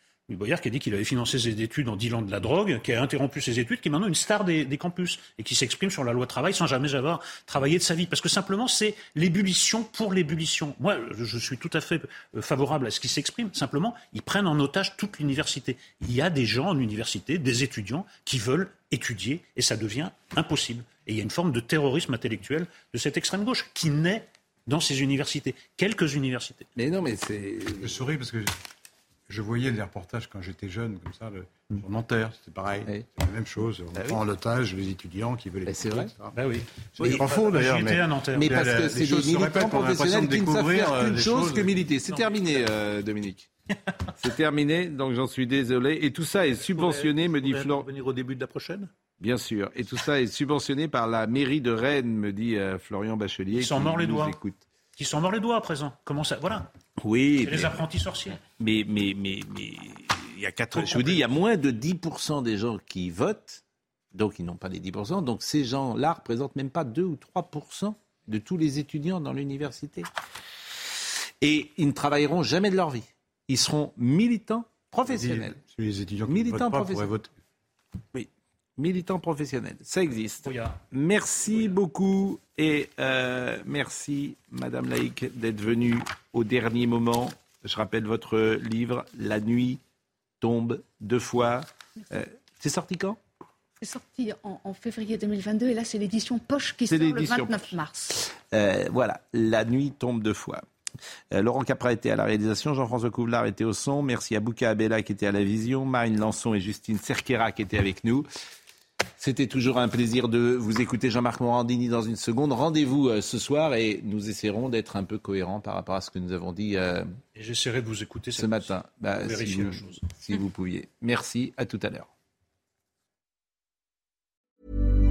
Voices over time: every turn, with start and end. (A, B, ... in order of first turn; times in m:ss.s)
0:00.3-0:26.7 A
0:26.8-0:28.0 B
0:27.8-0:28.5 C
0:29.3-0:36.3 C
0:33.9-0:34.2 B
0:35.6-0:36.1 B
0:36.3-0:38.7 A
0:37.0-0:41.8 C
0:37.0-0:37.3 B
0:38.3-0:43.5 B
0:44.2-0:47.9 B
0:46.7-0:48.9 D
0:49.2-0:54.6 B
0:53.5-0:54.4 A
0:55.0-0:56.7 A
0:57.0-0:57.8 B
0:57.4-0:58.4 A
0:58.6-1:03.6 B
1:00.9-1:01.2 A
1:04.1-1:10.1 B
1:11.4-1:15.6 B
1:15.1-1:17.3 C
1:16.3-1:17.1 B
1:18.1-1:29.8 B
1:20.4-1:20.8 A
1:21.4-1:21.7 A
1:30.4-1:33.2 B
1:33.8-1:38.1 E
1:36.9-1:40.6 B
1:41.3-1:48.3 B
1:49.2-1:57.1 B
1:57.4-2:00.0 A
1:58.4-2:02.1 B